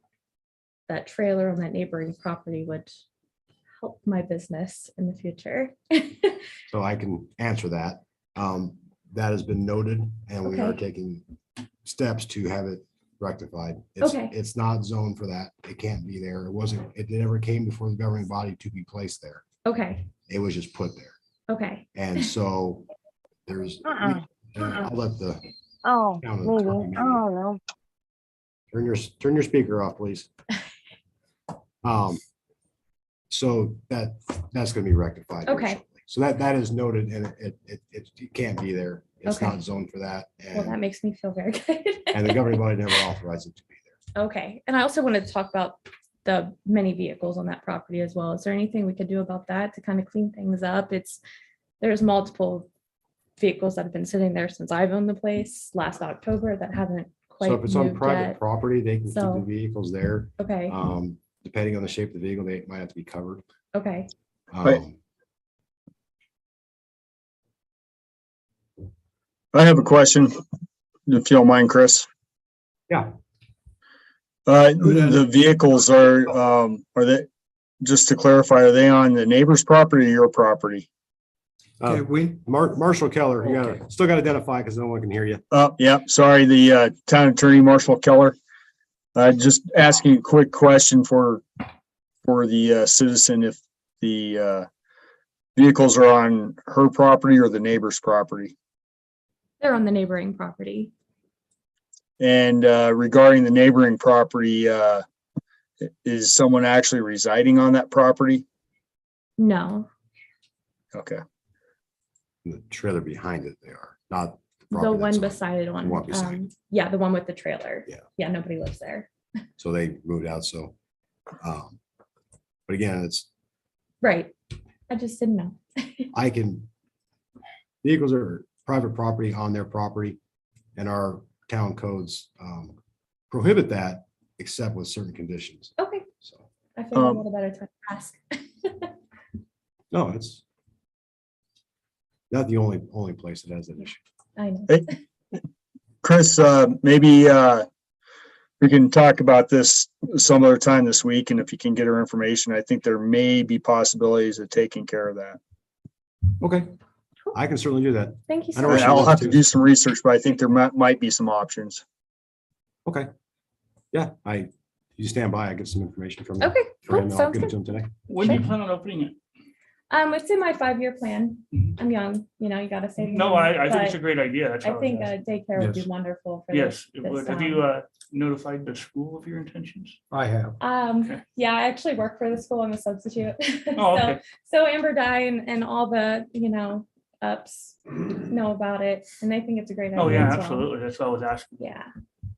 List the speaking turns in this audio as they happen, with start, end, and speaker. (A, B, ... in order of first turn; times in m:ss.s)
0:00.9-0:02.9 A
0:03.8-0:06.4 A
0:06.7-0:11.2 B
0:10.4-0:10.8 A
0:11.8-0:19.4 B
0:14.0-0:14.3 A
0:19.6-0:20.1 A
0:20.3-0:21.1 B
0:21.5-0:21.9 A
0:21.9-0:22.9 B
0:23.4-0:25.4 B
0:23.8-0:24.2 C
0:25.8-0:27.6 C
0:26.2-0:27.3 B
0:28.7-0:30.3 B
0:31.8-0:32.2 B
0:33.3-0:40.8 B
0:35.5-0:35.8 A
0:39.2-0:39.6 A
0:40.5-0:42.5 A
0:42.1-0:44.0 B
0:44.1-0:51.2 A
0:51.8-0:52.7 A
0:53.4-0:58.4 A
0:57.4-1:03.4 B
0:59.1-0:59.4 A
1:00.4-1:00.7 A
1:03.7-1:04.1 A
1:04.5-1:05.0 B
1:09.5-1:10.4 D
1:11.1-1:12.1 D
1:14.4-1:17.3 D
1:14.8-1:15.3 E
1:17.8-1:20.9 D
1:21.8-1:25.4 B
1:21.8-1:22.4 E
1:25.5-1:28.4 D
1:29.1-1:31.4 D
1:32.2-1:34.7 D
1:35.6-1:38.5 D
1:39.6-1:40.9 A
1:42.2-1:45.0 D
1:45.8-1:48.4 D
1:49.4-1:49.9 A
1:50.9-1:51.2 D
1:52.4-1:56.4 B
1:54.7-1:59.1 A
1:59.6-2:00.7 B
2:01.4-2:01.8 B
2:02.7-2:03.3 B
2:04.0-2:04.3 A
2:04.9-2:06.1 A
2:06.1-2:06.7 B
2:07.8-2:10.2 B
2:10.8-2:12.8 B
2:13.3-2:16.4 B
2:15.8-2:16.1 A
2:16.8-2:18.9 A
2:16.9-2:17.2 D
2:19.9-2:20.4 B
2:22.3-2:24.0 B
2:24.4-2:24.9 A
2:26.0-2:27.6 D
2:28.6-2:35.4 D
2:36.4-2:36.7 B
2:37.3-2:39.4 B
2:38.3-2:39.2 A
2:38.6-2:41.8 D
2:43.9-2:47.9 B
2:46.4-2:47.5 A
2:48.1-2:49.2 F
2:49.9-2:54.0 A
2:53.0-2:55.1 F
2:54.6-2:57.6 A
2:55.6-2:55.9 E
2:56.5-3:00.0 F
3:00.1-3:00.6 E
3:00.6-3:10.7 A
3:03.7-3:04.2 F
3:09.9-3:11.6 F
3:11.6-3:11.9 A